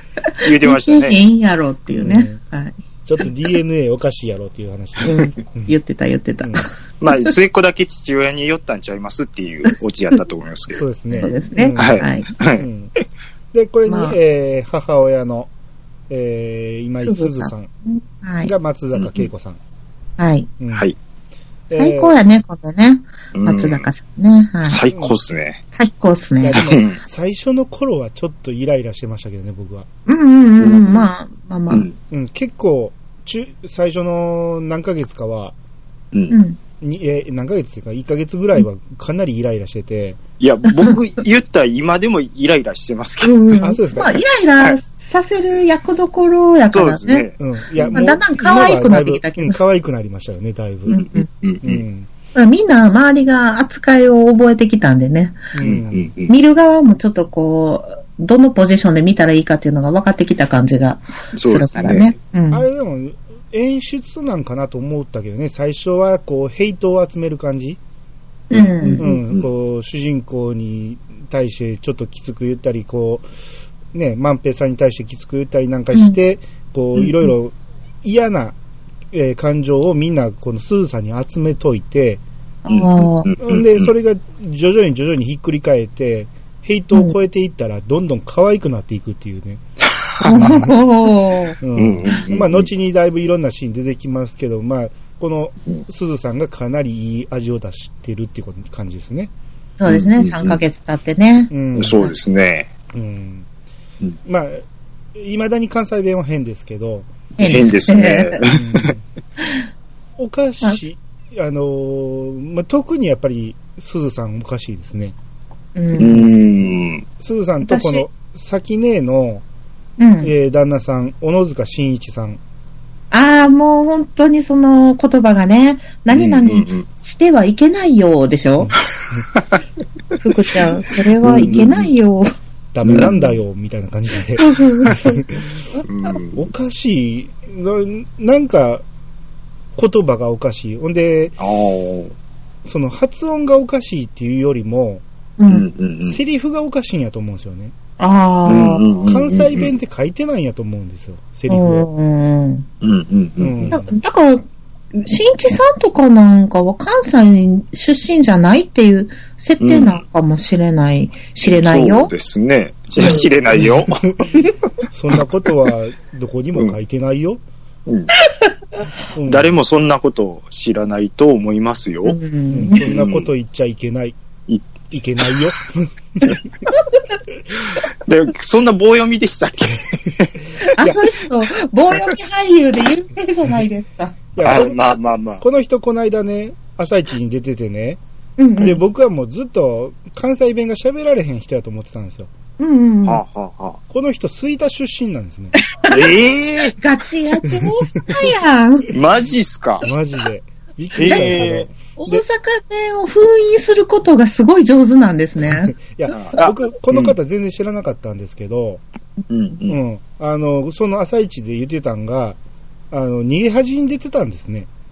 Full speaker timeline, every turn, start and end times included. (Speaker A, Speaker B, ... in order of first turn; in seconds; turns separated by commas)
Speaker A: 0.2-2.8, Speaker B: 0.4-1.2, Speaker C: 2.0-2.4, Speaker C: 3.0-5.7, Speaker A: 5.0-7.3, Speaker C: 6.4-6.7, Speaker B: 7.0-12.7, Speaker C: 10.8-12.1, Speaker A: 11.1-12.3, Speaker C: 12.6-12.9, Speaker C: 13.5-15.5, Speaker A: 13.9-14.2, Speaker C: 16.1-17.7, Speaker A: 17.0-18.5, Speaker C: 18.4-19.6, Speaker B: 19.0-19.3, Speaker A: 20.2-20.5, Speaker C: 20.6-20.9, Speaker C: 21.7-22.2, Speaker A: 21.8-24.8, Speaker B: 23.3-23.9, Speaker B: 24.6-25.6, Speaker A: 25.7-26.6, Speaker C: 26.4-29.9, Speaker B: 26.6-27.0, Speaker A: 30.1-31.9, Speaker B: 30.6-31.1, Speaker B: 31.7-32.0, Speaker C: 32.1-35.5, Speaker A: 36.3-36.6, Speaker C: 36.8-40.2, Speaker B: 40.4-43.6, Speaker A: 43.2-47.3, Speaker C: 43.6-44.2, Speaker B: 46.7-48.0, Speaker C: 47.4-51.1, Speaker A: 47.9-49.6, Speaker A: 50.9-51.3, Speaker B: 51.0-51.8, Speaker C: 51.6-52.1, Speaker A: 52.4-55.5, Speaker C: 55.5-56.1, Speaker B: 55.6-56.3, Speaker A: 56.3-62.6, Speaker B: 61.4-62.1, Speaker C: 62.5-67.8, Speaker A: 68.5-69.1, Speaker B: 68.5-69.5, Speaker C: 69.0-73.2, Speaker C: 73.9-78.6, Speaker B: 77.0-77.3, Speaker C: 79.1-82.2, Speaker A: 82.7-83.3, Speaker B: 82.7-83.9, Speaker C: 83.4-89.6, Speaker B: 90.1-90.7, Speaker A: 90.2-91.6, Speaker C: 90.3-90.8, Speaker C: 91.6-99.3, Speaker B: 91.8-92.7, Speaker A: 99.8-102.1, Speaker B: 99.9-100.6, Speaker C: 101.5-102.0, Speaker B: 101.8-102.7, Speaker C: 102.9-103.5, Speaker C: 104.2-104.6, Speaker C: 105.2-107.1, Speaker A: 107.4-108.4, Speaker B: 107.4-108.9, Speaker C: 108.5-109.0, Speaker C: 110.2-115.2, Speaker A: 115.8-116.3, Speaker B: 116.0-117.0, Speaker C: 117.2-119.4, Speaker A: 117.6-118.0, Speaker A: 120.0-120.3, Speaker C: 120.2-122.4, Speaker A: 123.1-128.8, Speaker B: 126.1-126.9, Speaker B: 129.3-129.6, Speaker A: 130.2-132.3, Speaker B: 131.2-131.9, Speaker C: 132.7-135.5, Speaker B: 132.9-133.4, Speaker A: 134.4-135.9, Speaker B: 135.9-136.5, Speaker C: 136.3-138.8, Speaker C: 139.8-141.4, Speaker B: 141.4-142.1, Speaker C: 142.7-145.0, Speaker A: 145.4-145.7, Speaker B: 145.5-146.2, Speaker C: 146.1-147.7, Speaker A: 148.0-148.9, Speaker B: 148.5-149.7, Speaker C: 149.1-151.9, Speaker A: 151.5-152.7, Speaker B: 152.8-153.8, Speaker C: 153.4-153.9, Speaker A: 153.7-154.4, Speaker A: 154.9-162.1, Speaker B: 159.6-160.0, Speaker B: 161.4-164.1, Speaker C: 164.9-167.4, Speaker A: 168.2-168.5, Speaker C: 169.2-169.6, Speaker B: 169.3-172.2, Speaker A: 172.1-172.9, Speaker C: 172.5-174.2, Speaker B: 172.8-173.3, Speaker B: 174.5-175.5, Speaker C: 174.9-176.4, Speaker B: 178.1-180.4, Speaker A: 180.8-184.2, Speaker C: 184.3-188.0, Speaker B: 184.4-185.4, Speaker A: 188.4-188.8, Speaker C: 188.6-192.3, Speaker A: 192.6-193.2, Speaker B: 193.1-193.8, Speaker C: 193.9-195.6, Speaker A: 195.6-196.2, Speaker B: 195.9-196.8, Speaker A: 196.7-198.9, Speaker C: 197.5-198.3, Speaker B: 198.9-199.9, Speaker C: 199.8-202.2, Speaker B: 201.0-201.7, Speaker A: 201.0-201.4, Speaker A: 202.0-205.7, Speaker C: 205.4-208.8, Speaker B: 206.1-207.2, Speaker B: 209.3-209.8, Speaker C: 209.7-212.4, Speaker C: 212.9-214.7